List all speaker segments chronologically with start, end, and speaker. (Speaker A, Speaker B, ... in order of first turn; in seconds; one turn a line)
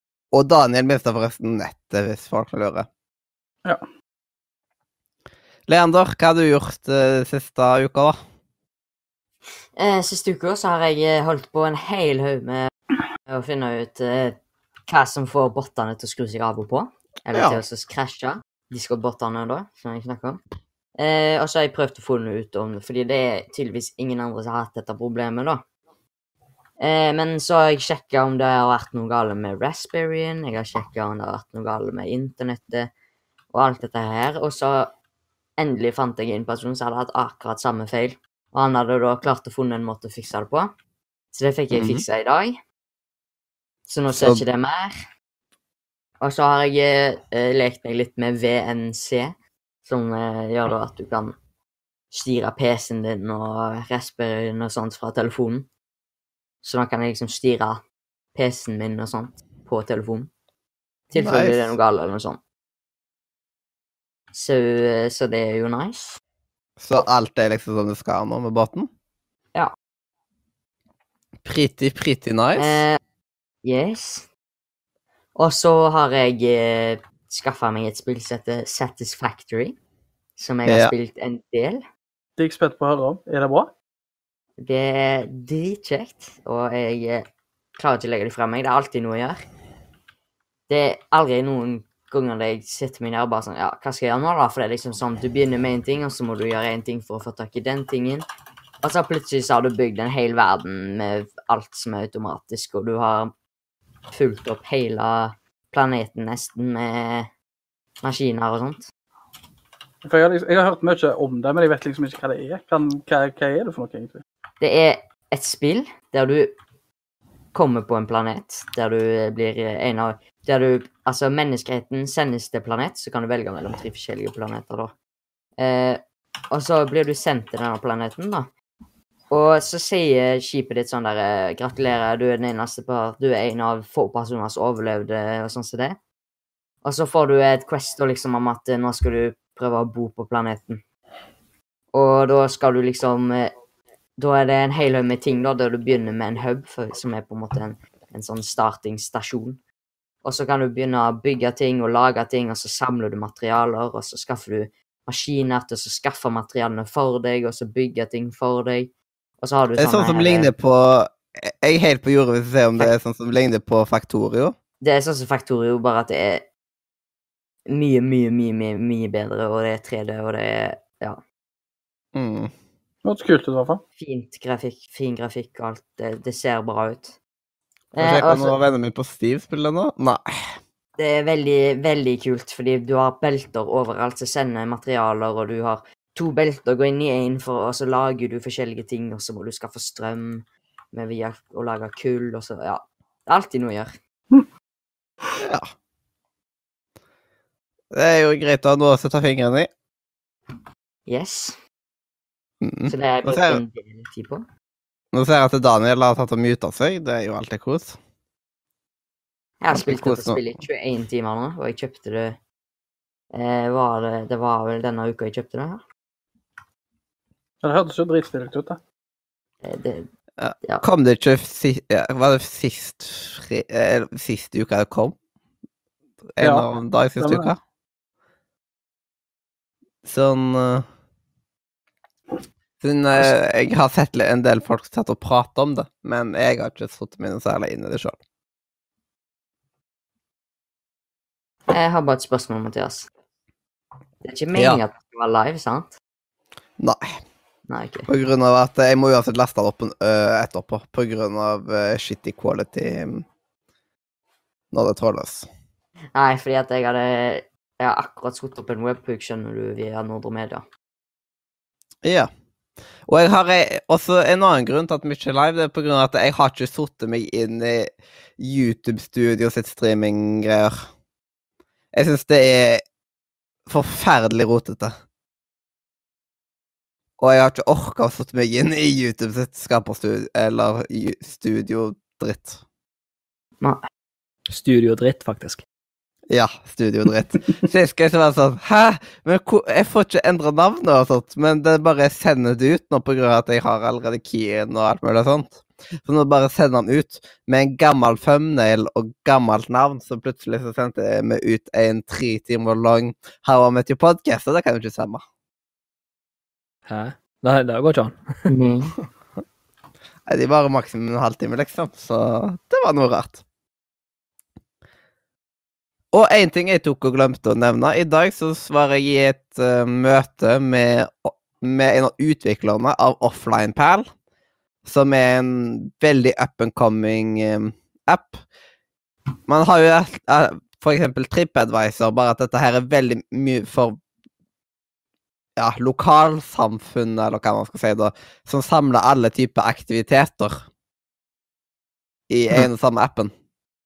Speaker A: 0.3-2.9
Speaker A: 5.7-8.2
Speaker B: 9.7-12.7
Speaker B: 13.2-20.4
Speaker A: 17.3-17.6
Speaker B: 20.9-25.6
Speaker B: 26.8-32.9
Speaker B: 33.5-34.9
Speaker B: 35.6-40.7
Speaker B: 41.3-42.6
Speaker A: 41.7-42.0
Speaker B: 43.9-44.9
Speaker A: 44.1-44.4
Speaker B: 46.2-51.4
Speaker B: 52.1-55.7
Speaker B: 56.6-57.8
Speaker B: 58.3-60.3
Speaker B: 61.1-62.4
Speaker A: 61.1-61.8
Speaker B: 64.3-66.2
Speaker A: 66.8-68.9
Speaker A: 71.4-72.8
Speaker B: 72.6-73.0
Speaker B: 73.6-74.3
Speaker B: 75.3-79.8
Speaker B: 80.4-81.8
Speaker A: 80.7-80.9
Speaker C: 82.4-83.7
Speaker B: 84.6-89.4
Speaker B: 90.7-98.2
Speaker B: 98.8-103.3
Speaker B: 104.1-107.3
Speaker B: 108.0-108.8
Speaker C: 110.0-114.2
Speaker B: 114.6-116.5
Speaker B: 117.5-124.9
Speaker B: 125.6-128.5
Speaker B: 129.3-136.0
Speaker B: 136.8-140.8
Speaker B: 141.9-143.5
Speaker B: 144.2-149.6
Speaker B: 150.2-160.5
Speaker A: 159.8-164.5
Speaker B: 164.8-166.4
Speaker B: 167.7-171.2
Speaker A: 172.1-172.5
Speaker C: 173.0-173.8
Speaker B: 174.0-177.2
Speaker B: 177.9-178.5
Speaker A: 177.9-180.5
Speaker B: 181.0-194.0
Speaker A: 195.4-195.7
Speaker A: 197.9-199.7
Speaker B: 201.1-201.6
Speaker A: 202.6-203.6
Speaker B: 202.9-204.5
Speaker A: 205.1-208.0
Speaker B: 209.6-212.4
Speaker A: 209.7-210.4
Speaker B: 213.3-215.8
Speaker C: 217.6-218.8
Speaker B: 219.6-220.1
Speaker A: 220.4-225.2
Speaker A: 226.3-227.6
Speaker C: 226.4-226.7
Speaker C: 227.2-227.5
Speaker A: 230.0-230.8
Speaker A: 232.8-238.2
Speaker B: 241.7-243.1
Speaker B: 244.2-245.9
Speaker A: 244.5-244.8
Speaker A: 246.8-247.1
Speaker B: 247.7-248.1
Speaker A: 248.1-253.2
Speaker A: 254.7-255.5
Speaker B: 256.1-260.6
Speaker A: 262.0-262.3
Speaker A: 263.1-270.9
Speaker A: 271.9-272.8
Speaker A: 273.7-274.9
Speaker A: 277.2-282.6
Speaker D: 284.5-285.6
Speaker A: 286.3-305.2
Speaker D: 306.9-308.2
Speaker B: 308.5-308.9
Speaker A: 310.3-313.4
Speaker A: 316.1-324.1
Speaker A: 324.8-328.4
Speaker A: 329.5-334.0
Speaker A: 335.6-340.7
Speaker A: 342.3-343.3